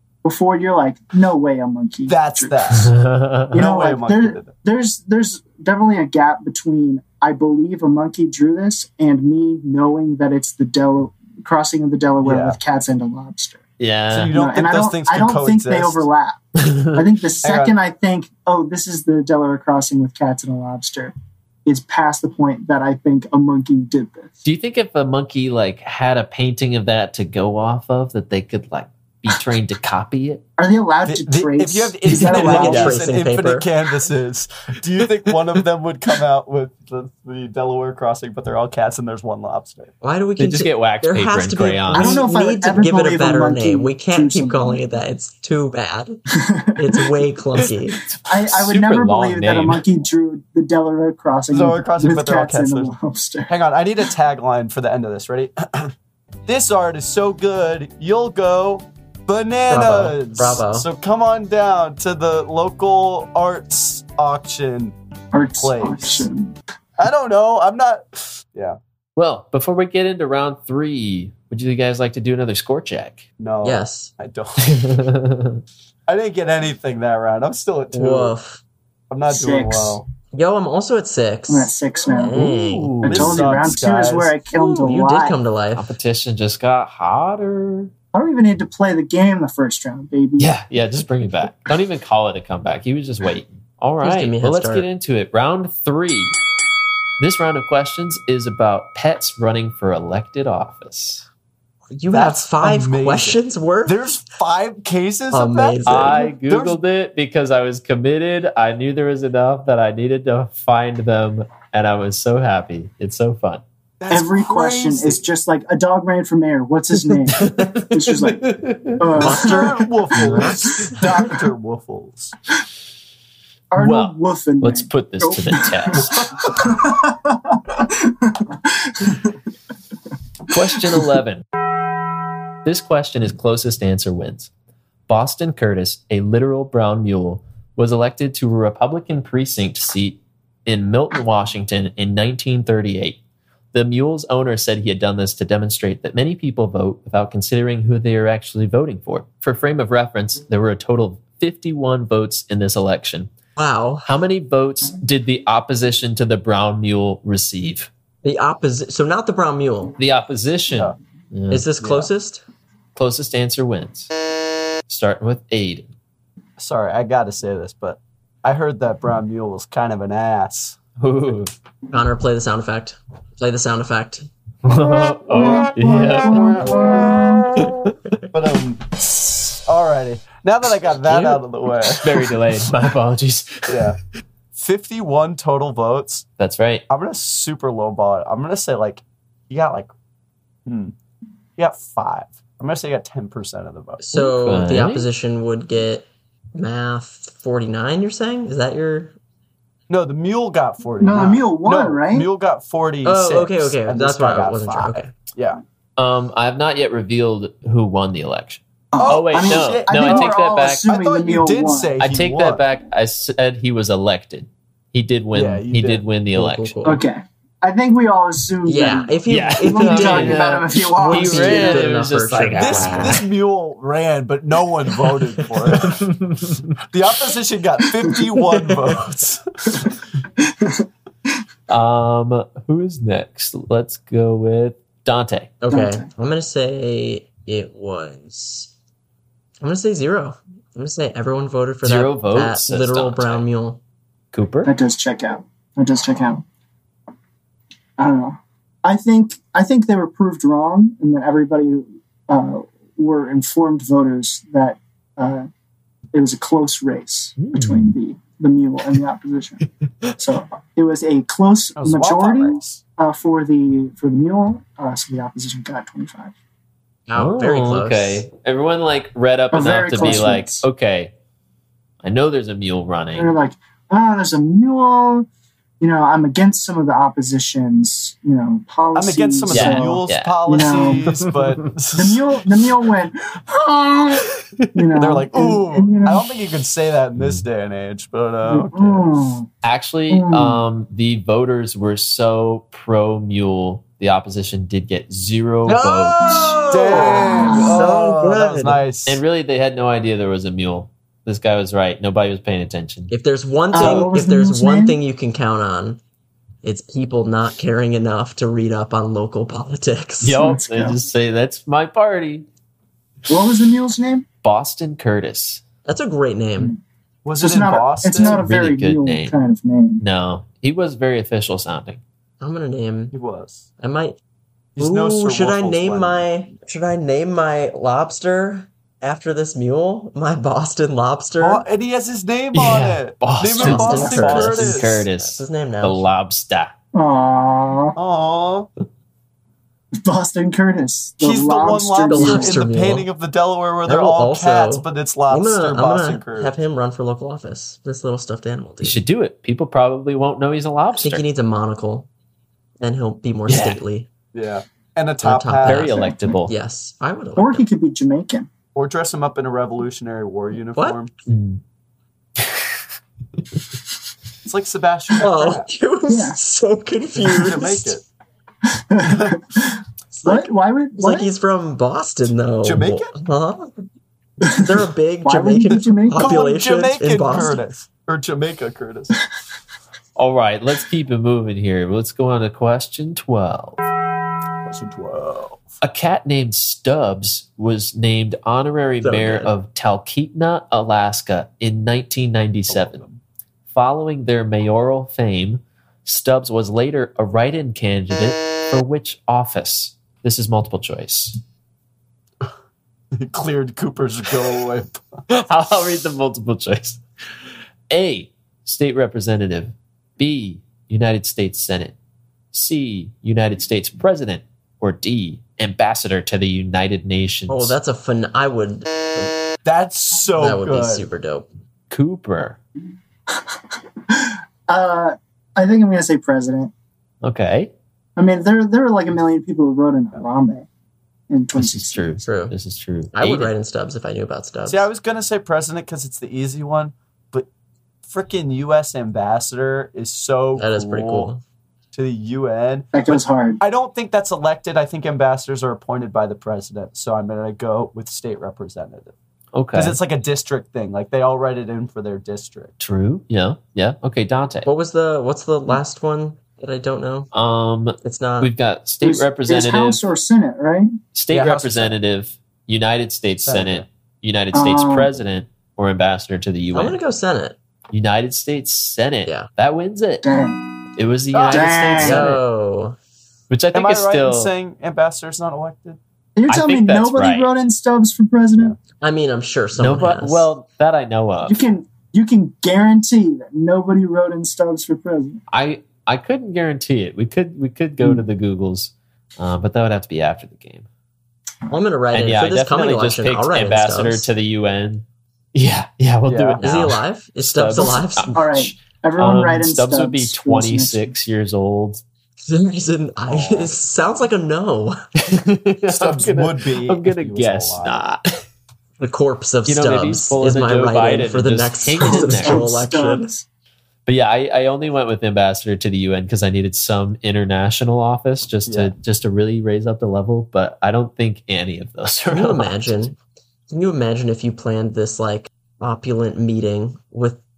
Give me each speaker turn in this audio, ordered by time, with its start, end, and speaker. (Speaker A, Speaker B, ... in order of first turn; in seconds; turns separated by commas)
Speaker A: 0.2-2.6, Speaker B: 2.1-2.9, Speaker C: 2.7-3.6, Speaker B: 3.5-4.5, Speaker A: 3.5-13.6, Speaker B: 12.2-12.6, Speaker C: 13.8-14.3, Speaker B: 14.1-16.1, Speaker A: 14.3-21.1, Speaker C: 16.6-17.0, Speaker B: 17.4-17.8, Speaker A: 21.6-24.3, Speaker C: 24.4-30.4, Speaker A: 30.6-32.9, Speaker B: 31.1-39.9, Speaker C: 32.2-32.9, Speaker D: 32.3-33.7, Speaker D: 40.0-46.2, Speaker C: 40.4-42.2, Speaker A: 41.9-44.8, Speaker A: 46.5-46.8, Speaker D: 46.7-48.0, Speaker C: 48.1-49.8, Speaker A: 48.2-53.5, Speaker B: 51.5-52.9, Speaker B: 53.5-55.9, Speaker B: 56.5-65.0, Speaker D: 59.7-60.9, Speaker A: 65.3-66.5, Speaker B: 65.6-66.3, Speaker B: 67.0-68.8, Speaker C: 69.2-73.2, Speaker B: 73.4-75.0, Speaker D: 73.6-74.1, Speaker C: 74.6-75.6, Speaker B: 76.1-78.3, Speaker D: 77.9-78.6, Speaker B: 79.1-80.0, Speaker A: 79.3-80.0, Speaker D: 80.3-82.9, Speaker A: 81.5-85.4, Speaker C: 82.4-83.6, Speaker B: 83.0-84.3, Speaker D: 84.5-85.9, Speaker C: 85.8-87.9, Speaker A: 88.1-90.5, Speaker C: 90.4-96.4, Speaker D: 94.0-94.8, Speaker C: 97.2-101.2, Speaker D: 101.9-104.0, Speaker B: 102.1-106.8, Speaker D: 105.3-106.2, Speaker C: 105.8-113.6, Speaker B: 114.0-115.2, Speaker A: 114.1-121.3, Speaker C: 117.3-119.6, Speaker B: 119.2-122.3, Speaker A: 123.7-129.3, Speaker C: 123.8-126.2, Speaker C: 130.5-131.4, Speaker C: 132.6-134.5, Speaker C: 135.1-143.2, Speaker C: 143.7-153.3, Speaker D: 153.6-154.1, Speaker C: 154.0-157.9, Speaker D: 158.2-159.9, Speaker C: 160.0-161.6, Speaker D: 161.5-162.4, Speaker B: 161.8-162.1, Speaker C: 162.9-164.1, Speaker C: 164.9-165.8, Speaker B: 166.6-170.8, Speaker C: 171.0-171.5, Speaker D: 171.9-174.3, Speaker C: 174.6-177.9, Speaker A: 175.3-177.6, Speaker B: 178.3-182.3, Speaker D: 181.1-181.4, Speaker C: 182.0-183.9, Speaker B: 183.7-184.0, Speaker B: 184.5-186.2, Speaker C: 186.4-186.8, Speaker B: 186.9-189.9, Speaker B: 190.7-190.9, Speaker B: 191.6-194.1, Speaker D: 194.0-199.2, Speaker C: 194.1-195.1, Speaker B: 199.9-205.6, Speaker A: 201.0-202.3, Speaker D: 203.0-205.1, Speaker C: 206.0-210.8, Speaker A: 208.9-211.9, Speaker B: 208.9-210.3, Speaker B: 210.8-212.6, Speaker C: 212.0-216.8, Speaker B: 215.3-216.0, Speaker D: 216.3-217.0, Speaker A: 216.8-221.9, Speaker D: 218.6-223.2, Speaker C: 219.3-223.2, Speaker B: 222.6-226.0, Speaker D: 225.4-225.9, Speaker C: 225.8-226.6, Speaker B: 226.9-229.9, Speaker A: 230.4-230.8, Speaker C: 231.7-235.5, Speaker D: 235.6-238.7, Speaker A: 235.7-236.1, Speaker D: 239.6-243.8, Speaker C: 241.8-243.4, Speaker C: 244.3-244.7, Speaker A: 244.6-246.4, Speaker A: 248.0-255.5, Speaker A: 256.1-259.6, Speaker C: 257.4-257.9, Speaker A: 260.2-266.3, Speaker B: 261.8-262.8, Speaker D: 267.1-268.2, Speaker C: 267.1-271.1, Speaker A: 269.5-270.6, Speaker C: 272.0-273.3, Speaker A: 273.1-275.3, Speaker A: 275.8-281.1, Speaker B: 278.9-282.4, Speaker C: 279.5-280.6, Speaker A: 281.9-286.2, Speaker B: 284.9-289.3, Speaker C: 287.2-287.4, Speaker A: 288.4-289.5, Speaker C: 289.6-296.6, Speaker A: 290.1-290.6, Speaker B: 295.6-299.2, Speaker D: 295.7-298.8, Speaker A: 296.9-297.8, Speaker C: 299.1-303.1, Speaker D: 303.1-306.0, Speaker A: 303.7-305.0, Speaker D: 306.6-310.4, Speaker C: 310.2-312.4, Speaker A: 310.4-311.0, Speaker A: 313.3-314.2, Speaker C: 314.4-315.6, Speaker D: 315.9-316.7, Speaker B: 317.2-318.4, Speaker A: 317.4-320.0, Speaker C: 318.1-319.4, Speaker C: 320.0-322.0, Speaker D: 322.4-323.1, Speaker B: 323.1-323.7, Speaker D: 323.8-324.2, Speaker B: 324.8-326.5, Speaker D: 324.8-331.6, Speaker B: 331.4-335.0, Speaker C: 332.5-336.7, Speaker D: 333.6-336.1, Speaker A: 336.9-338.0, Speaker B: 337.9-338.7, Speaker A: 340.0-342.6, Speaker B: 341.2-346.5, Speaker D: 342.1-343.1, Speaker D: 343.9-349.0, Speaker C: 348.8-351.2, Speaker D: 351.0-352.1, Speaker D: 352.8-354.1, Speaker C: 353.5-353.8, Speaker B: 354.3-356.1, Speaker D: 355.2-357.6, Speaker C: 355.6-356.5, Speaker A: 355.9-356.4, Speaker A: 357.4-358.5, Speaker B: 358.7-361.1, Speaker C: 361.3-361.6, Speaker C: 362.4-362.7, Speaker B: 364.4-365.7, Speaker D: 365.2-367.9, Speaker A: 366.1-366.4, Speaker B: 367.2-368.0, Speaker A: 368.7-371.3, Speaker B: 369.0-369.4, Speaker D: 370.1-373.7, Speaker B: 372.6-373.1, Speaker A: 374.4-374.7, Speaker D: 374.6-377.6, Speaker A: 375.2-376.4, Speaker B: 376.1-379.2, Speaker C: 380.1-383.8, Speaker B: 384.6-385.6, Speaker C: 385.8-393.0, Speaker D: 389.0-389.5, Speaker B: 392.7-393.2, Speaker C: 393.7-401.4, Speaker B: 403.1-405.2, Speaker C: 405.3-407.0, Speaker C: 407.9-411.9, Speaker C: 412.5-417.8, Speaker D: 417.5-419.3, Speaker B: 419.6-421.1, Speaker D: 420.4-421.5, Speaker C: 421.9-422.6, Speaker A: 423.3-426.7, Speaker C: 427.2-427.7, Speaker A: 428.2-430.7, Speaker A: 431.3-432.1, Speaker C: 431.5-433.5, Speaker D: 432.2-432.5, Speaker D: 433.1-434.9, Speaker B: 434.6-437.5, Speaker B: 438.1-441.3, Speaker D: 440.6-441.4, Speaker B: 441.9-449.1, Speaker A: 442.9-443.6, Speaker C: 449.5-450.0, Speaker B: 449.7-452.7, Speaker C: 452.8-454.7, Speaker D: 454.6-457.3, Speaker C: 457.3-460.0, Speaker D: 458.0-458.5, Speaker A: 459.0-461.0, Speaker C: 461.1-467.0, Speaker B: 461.3-462.0, Speaker B: 463.4-463.9, Speaker A: 464.5-465.1, Speaker D: 466.7-467.6, Speaker C: 467.9-470.2, Speaker A: 470.2-470.6, Speaker C: 471.0-472.4, Speaker B: 471.3-471.8, Speaker A: 471.5-472.2, Speaker D: 472.0-473.0, Speaker C: 473.5-474.5, Speaker B: 473.7-476.0, Speaker A: 476.4-478.8, Speaker C: 476.5-477.5, Speaker D: 479.0-480.5, Speaker C: 479.8-481.6, Speaker A: 481.4-485.4, Speaker C: 485.5-490.9, Speaker D: 491.7-494.3, Speaker C: 492.1-502.0, Speaker B: 496.2-496.6, Speaker D: 496.6-498.4, Speaker A: 498.3-501.1, Speaker D: 502.4-505.0, Speaker B: 503.3-503.7, Speaker C: 505.2-508.3, Speaker B: 505.9-508.0, Speaker D: 509.0-513.3, Speaker C: 509.6-512.8, Speaker A: 512.0-513.5, Speaker C: 514.0-523.1, Speaker B: 518.6-518.9, Speaker D: 522.3-523.2, Speaker D: 523.7-527.4